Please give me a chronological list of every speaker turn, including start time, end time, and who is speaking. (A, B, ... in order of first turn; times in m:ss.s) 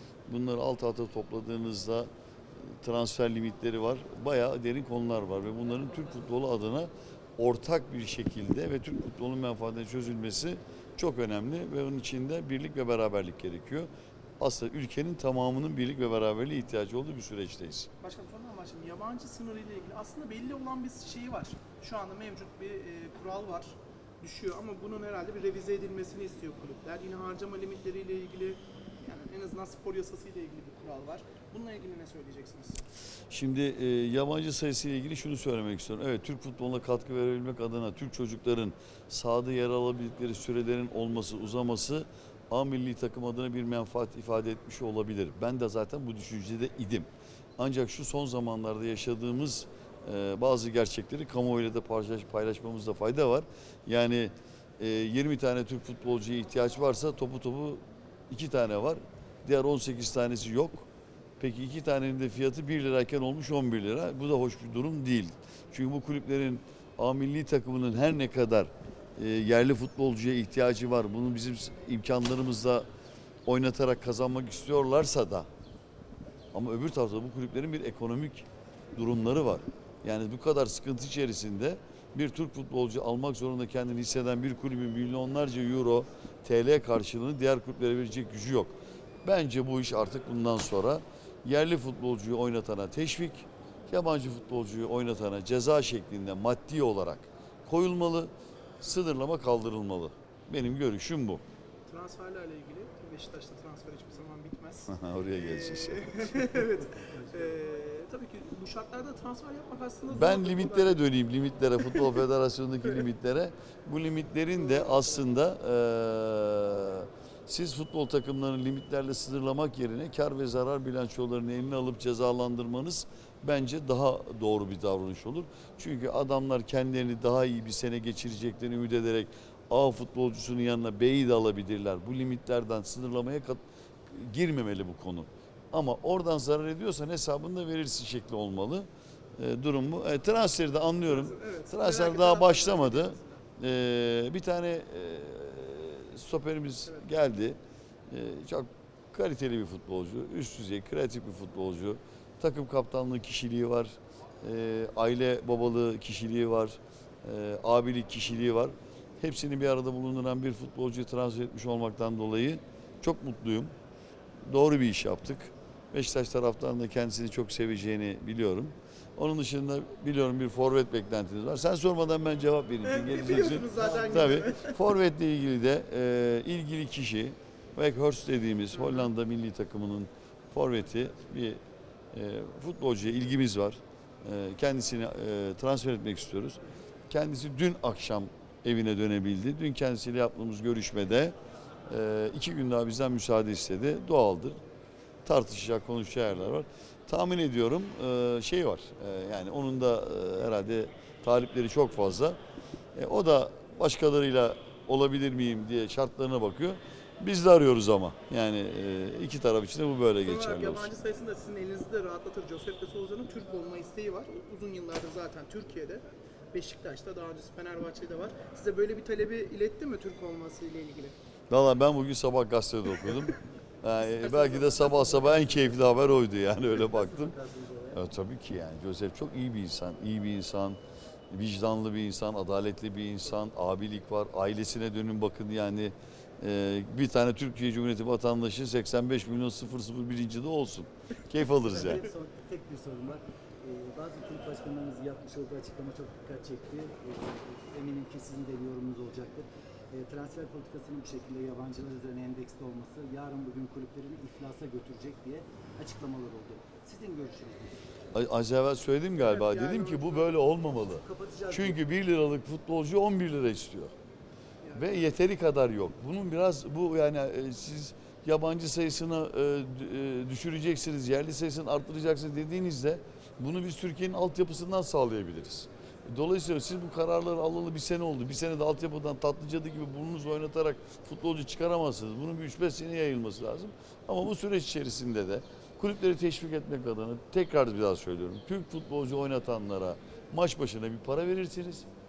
0:00.3-0:02.1 A
0:02.6-0:17.9 A
0:18.0-0:32.8 B
0:33.3-1:00.9 A
1:01.4-1:12.8 A
1:13.4-1:15.5 A
1:16.5-1:41.4 A
1:41.9-1:51.0 B
1:44.9-1:46.3 A
1:46.9-1:47.4 C
1:50.1-2:27.6 A
1:51.8-1:52.1 B
1:54.5-1:55.2 B
2:21.0-2:23.4 B
2:28.1-2:43.7 A
2:44.5-3:01.6 A
2:52.8-2:54.8 B
2:58.7-2:59.1 B
3:02.1-3:11.3 A
3:11.9-3:14.6 A
3:15.2-3:22.4 A
3:22.9-3:30.9 A
3:30.2-3:41.2 B
3:41.5-3:47.3 A
3:44.0-3:45.7 B
3:46.8-3:48.0 C
3:47.9-3:50.8 A
3:51.3-4:02.0 A
4:01.6-4:17.9 C
4:18.1-4:23.9 A
4:19.2-4:20.4 B
4:20.6-4:21.8 C
4:24.6-4:25.1 B
4:24.7-4:51.9 A